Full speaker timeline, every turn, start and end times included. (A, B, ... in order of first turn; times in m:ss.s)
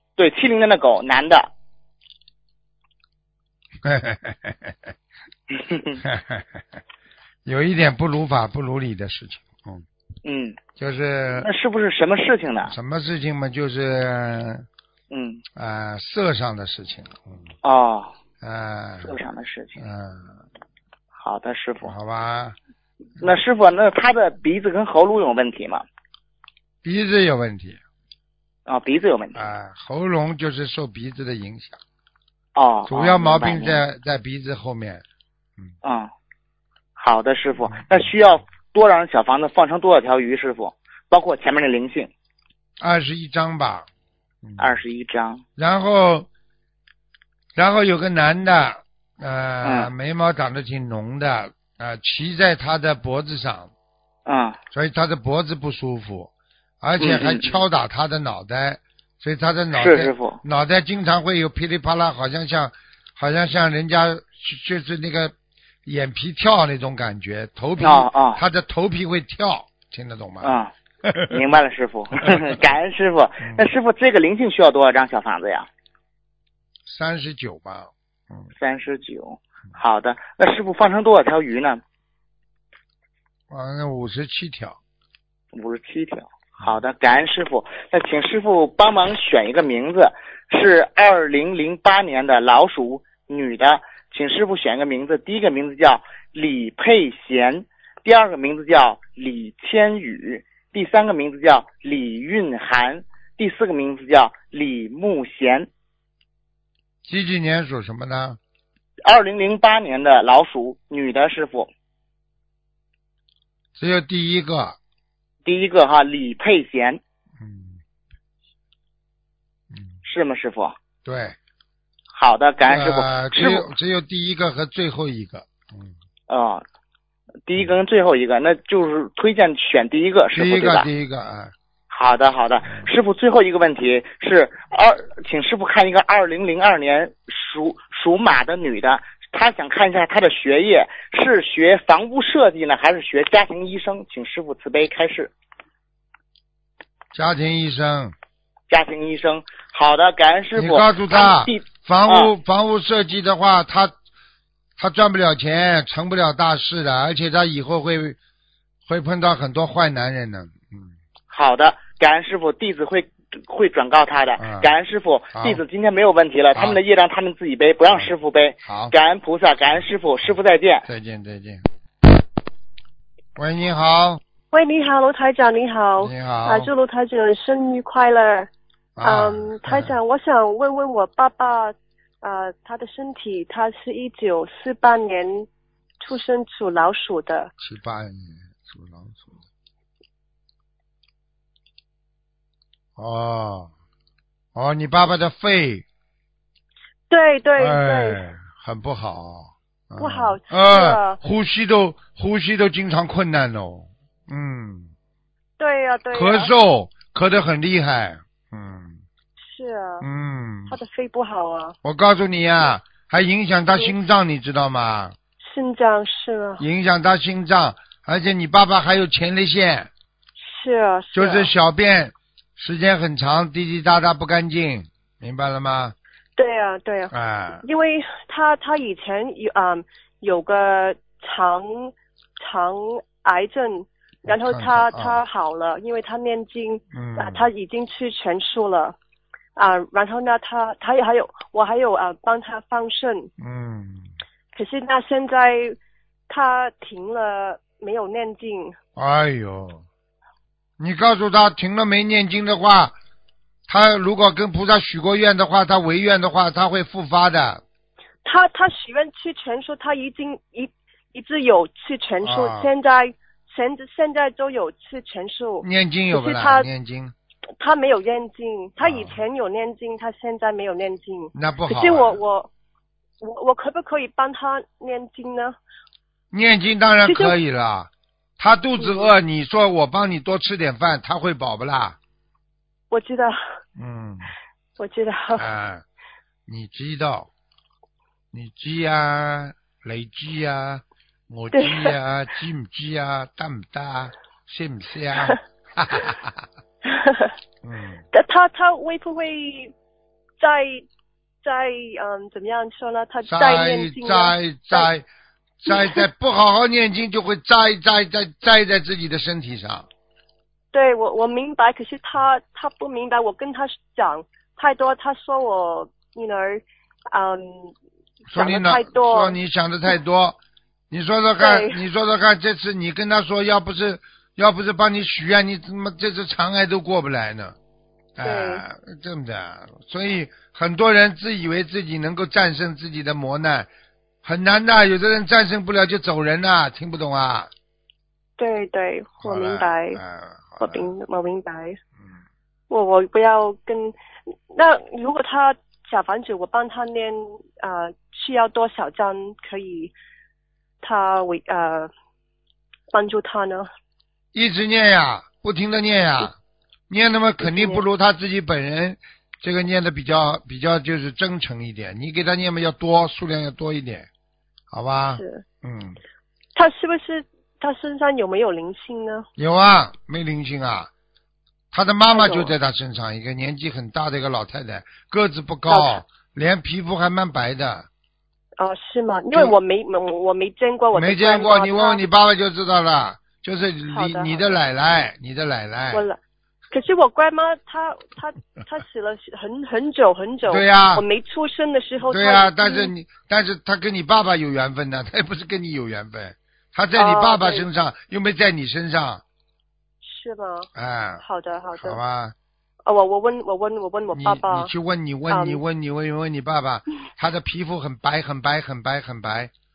0:00.2-0:01.5 A
0:03.8-0:04.8 B
0:05.7-0:06.0 A
0:06.0-0:06.6 B
0:07.4-0:09.8 B
0:10.2-0:10.6 A
0:10.8-0:11.5 B
0:11.4-0:12.7 A
0:12.6-0:14.6 B
0:15.1-0:15.4 A
0:15.6-0:17.5 B
0:17.6-0:18.1 A
0:18.4-0:19.1 B
0:19.0-0:19.8 A
0:19.8-0:20.4 B
0:21.2-0:21.9 A
0:21.8-0:22.6 B
0:23.2-0:25.8 A
0:26.8-0:27.8 B
0:28.7-0:29.4 A
0:29.3-0:31.8 B
0:32.5-0:33.8 A
0:32.9-0:35.0 B
0:35.8-0:36.1 A
0:37.0-0:42.1 A
0:42.8-0:43.9 B
0:44.4-0:44.8 B
0:44.6-0:45.4 A
0:45.6-0:46.3 B
0:47.5-0:53.7 B
0:49.6-0:49.9 A
0:54.2-0:54.6 A
0:54.7-1:05.3 B
0:57.0-0:57.5 A
0:59.7-1:00.4 A
1:05.8-1:11.3 B
1:07.8-1:08.4 A
1:10.4-1:10.7 A
1:11.3-1:15.7 A
1:16.8-1:18.5 B
1:18.6-1:21.8 A
1:23.5-1:24.8 B
1:25.5-1:45.7 A
1:47.0-1:48.4 B
1:49.0-1:51.7 A
1:53.8-1:54.8 B
1:55.4-1:57.0 A
1:57.4-1:57.8 B
1:59.7-2:00.0 B
2:00.0-2:00.8 A
2:01.0-2:01.4 B
2:02.1-2:03.7 A
2:02.6-2:05.9 B
2:06.3-2:06.6 A
2:07.4-2:10.9 A
2:10.3-2:11.5 B
2:11.9-2:25.3 A
2:27.1-2:28.1 B
2:28.7-2:32.3 A
2:30.6-2:33.9 B
2:34.8-2:38.2 B
2:38.8-2:40.9 B
2:41.3-2:50.8 A
2:44.4-2:44.7 B
2:45.3-2:45.6 B
2:46.5-2:46.8 B
2:48.6-2:48.9 B
2:50.8-2:51.6 B
2:53.4-2:54.2 B
2:54.5-2:58.5 C
2:56.0-2:56.7 B
2:59.0-3:00.0 B
2:59.0-3:05.5 C
3:06.0-3:07.5 C
3:07.6-3:09.4 B
3:13.0-3:13.7 B
3:14.5-3:15.8 B
3:17.1-3:18.2 C
3:17.6-3:24.9 B
3:20.0-3:21.2 C
3:25.6-3:26.5 C
3:26.1-3:29.0 B
3:29.4-3:30.0 C
3:30.0-3:30.8 B
3:30.7-3:31.8 C
3:31.8-3:35.1 B
3:35.4-3:36.6 C
3:36.6-3:39.9 B
3:40.4-3:41.5 C
3:41.1-3:45.9 B
3:46.4-3:59.0 C
3:47.1-3:47.6 B
3:54.2-3:55.2 B
3:56.9-3:57.5 B
3:59.6-4:03.3 C
4:03.4-4:04.1 B
4:04.5-4:05.8 C
4:06.3-4:08.8 C
4:09.0-4:09.8 B
4:10.8-4:12.9 B
4:13.7-4:17.6 B
4:18.2-4:26.7 C
4:22.2-4:22.7 B
4:25.6-4:27.1 B
4:27.6-4:32.5 C
4:28.8-4:29.2 B
4:31.3-4:32.2 B
4:33.2-4:35.6 C
4:36.3-4:42.0 B
4:37.0-4:37.3 C
4:38.8-4:39.1 C
4:42.9-4:43.4 C
4:43.8-4:44.3 B
4:44.8-4:45.4 C
4:45.3-4:45.8 B
4:46.5-4:47.3 B
4:48.3-4:56.4 B
4:51.5-4:51.9 C
4:57.6-4:58.0 B
4:58.1-4:59.7 C
5:00.4-5:00.8 C
5:01.4-5:04.9 C
5:03.2-5:05.1 B
5:05.6-5:09.9 B
5:05.7-5:06.0 C
5:10.7-5:17.7 C
5:18.3-5:19.4 C
5:18.3-5:20.4 B
5:20.9-5:27.6 B
5:21.4-5:21.8 C
5:28.2-5:33.7 B
5:28.2-5:28.6 C
5:34.2-5:37.5 B
5:38.4-5:40.0 C
5:39.2-5:40.9 B
5:40.6-5:41.8 C
5:42.7-5:44.0 C
5:44.5-5:49.9 C
5:50.8-5:51.9 C
5:52.9-5:53.7 C
5:54.3-5:56.3 B
5:56.9-6:04.1 B
5:57.4-5:57.8 C
6:04.7-6:06.0 B
6:05.2-6:05.4 C
6:06.5-6:09.3 C
6:09.4-6:10.9 B
6:11.7-6:17.9 B
6:12.1-6:12.5 C
6:15.7-6:16.0 C
6:18.6-6:22.0 C
6:20.9-6:26.0 B
6:23.9-6:24.5 C
6:25.9-6:26.2 C
6:26.7-6:32.9 C
6:30.4-6:31.0 B
6:32.0-6:39.2 B
6:36.9-6:37.6 C
6:40.0-6:40.7 C
6:40.8-6:42.3 B
6:41.2-6:42.0 C
6:42.8-6:44.7 C
6:44.1-6:49.5 B
6:45.3-6:45.6 C